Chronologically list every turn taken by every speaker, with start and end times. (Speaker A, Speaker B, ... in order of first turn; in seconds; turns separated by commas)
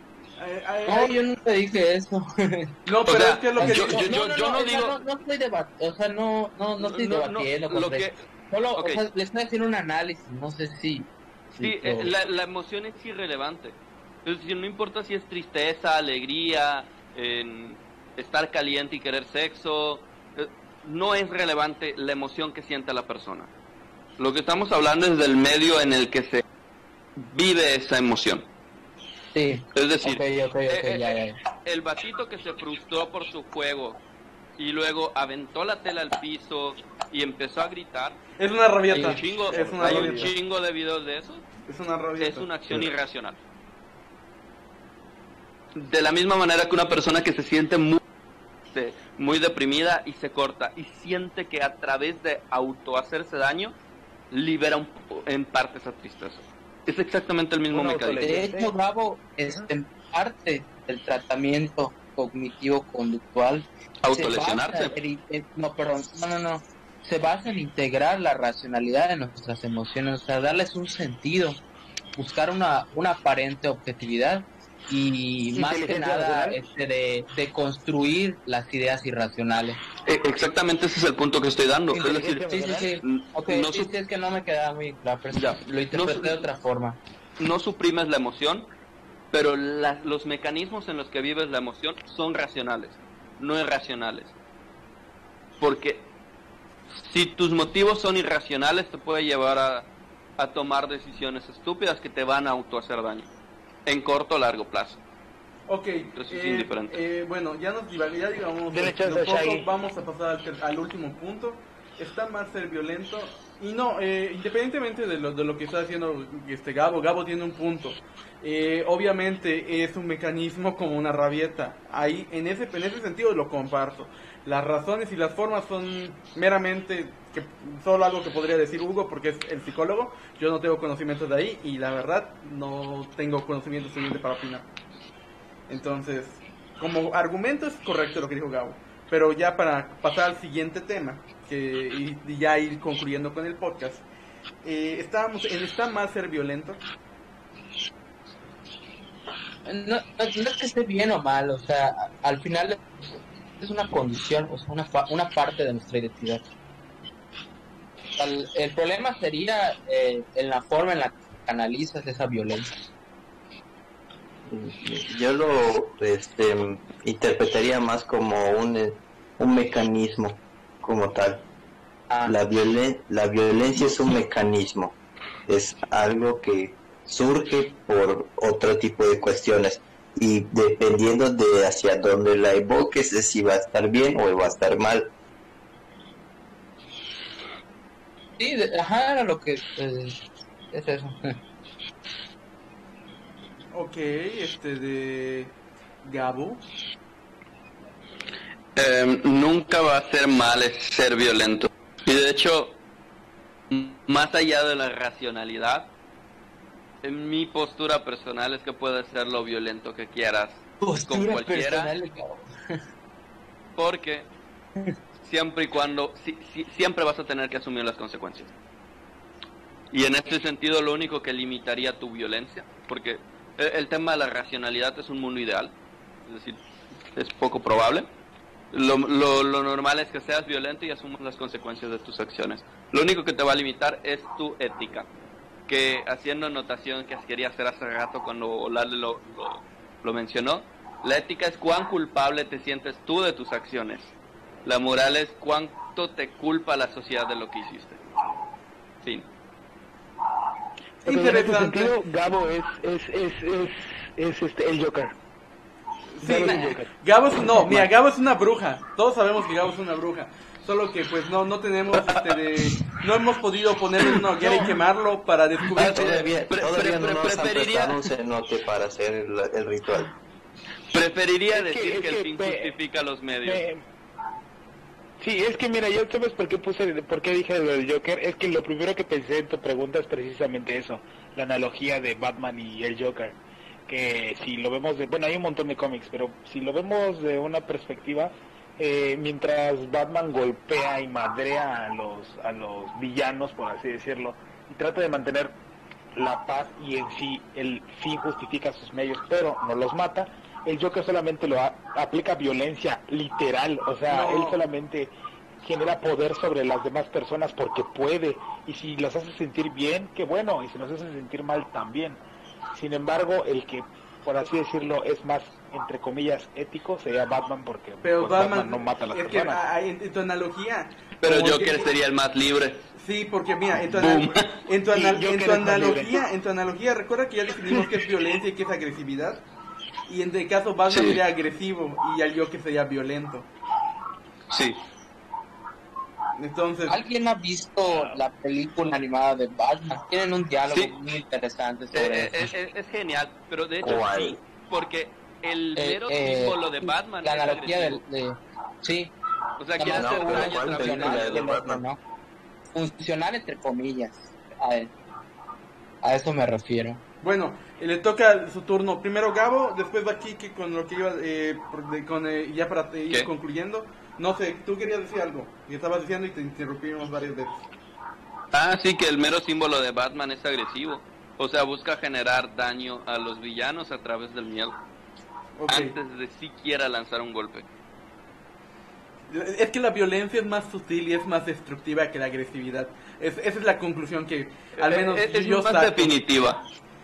Speaker A: 0.4-1.2, Speaker B: 0.9-2.7, Speaker A: 2.9-4.2, Speaker C: 3.1-5.0, Speaker B: 3.6-12.1, Speaker C: 6.8-8.2, Speaker C: 8.8-9.0, Speaker C: 11.6-23.5, Speaker C: 24.2-26.4, Speaker C: 27.2-28.5, Speaker B: 29.3-31.4, Speaker C: 29.7-31.1, Speaker C: 31.6-34.0, Speaker C: 34.6-38.2, Speaker A: 38.4-40.3, Speaker B: 38.9-39.2, Speaker C: 39.0-41.5, Speaker D: 39.5-40.3, Speaker A: 41.7-42.5, Speaker C: 42.2-43.4, Speaker C: 45.8-48.0, Speaker C: 48.7-53.7, Speaker C: 54.3-58.3, Speaker D: 57.7-58.7, Speaker B: 58.2-71.6, Speaker C: 64.0-65.0, Speaker B: 72.2-79.8, Speaker D: 75.5-76.6, Speaker C: 80.0-82.4, Speaker D: 81.9-83.0, Speaker B: 82.5-87.0, Speaker C: 83.0-83.9, Speaker C: 85.3-86.4, Speaker C: 87.4-88.7, Speaker C: 89.3-94.3, Speaker C: 95.6-96.1, Speaker C: 96.9-103.3, Speaker C: 103.9-105.0, Speaker A: 105.7-134.7, Speaker C: 106.1-107.0, Speaker D: 108.7-109.7, Speaker A: 135.7-144.0, Speaker A: 144.6-146.8, Speaker B: 149.7-152.8, Speaker B: 153.6-156.4, Speaker B: 158.2-162.7, Speaker E: 164.5-171.4, Speaker B: 172.1-172.4, Speaker E: 172.3-175.0, Speaker E: 175.5-185.1, Speaker B: 188.4-191.4, Speaker A: 193.7-196.6, Speaker C: 198.8-202.8, Speaker C: 203.7-205.9, Speaker C: 207.0-211.9, Speaker B: 210.8-212.8, Speaker C: 213.8-214.3, Speaker C: 215.2-218.5, Speaker C: 219.9-225.7, Speaker C: 226.3-226.6, Speaker C: 227.2-228.1, Speaker C: 228.7-235.1, Speaker C: 235.7-244.1, Speaker C: 244.7-248.0, Speaker A: 251.0-252.0, Speaker D: 251.1-255.1, Speaker A: 256.1-266.2, Speaker D: 256.2-256.9, Speaker D: 257.5-257.9, Speaker C: 261.9-262.8, Speaker D: 264.4-264.7, Speaker C: 265.8-268.0, Speaker E: 265.8-270.1, Speaker C: 270.9-273.6, Speaker D: 271.5-272.8, Speaker D: 273.4-273.8, Speaker D: 275.2-295.6, Speaker D: 296.1-312.2, Speaker A: 304.1-304.6, Speaker D: 312.7-319.6, Speaker A: 318.0-321.9, Speaker C: 321.2-322.9, Speaker A: 322.9-329.4, Speaker C: 323.9-324.6, Speaker D: 324.9-326.2, Speaker A: 330.1-333.5, Speaker C: 330.9-331.2, Speaker C: 334.5-334.8, Speaker A: 336.4-337.0, Speaker B: 336.9-342.5, Speaker D: 337.9-338.2, Speaker C: 341.9-348.0, Speaker E: 343.8-344.4, Speaker B: 345.8-349.1, Speaker C: 349.6-351.5, Speaker B: 349.8-352.0, Speaker E: 349.8-351.8, Speaker B: 352.7-354.9, Speaker B: 356.0-357.0, Speaker A: 357.2-367.6, Speaker C: 368.5-374.8, Speaker A: 375.6-375.9, Speaker C: 375.7-377.6, Speaker A: 379.3-386.2, Speaker C: 384.8-386.6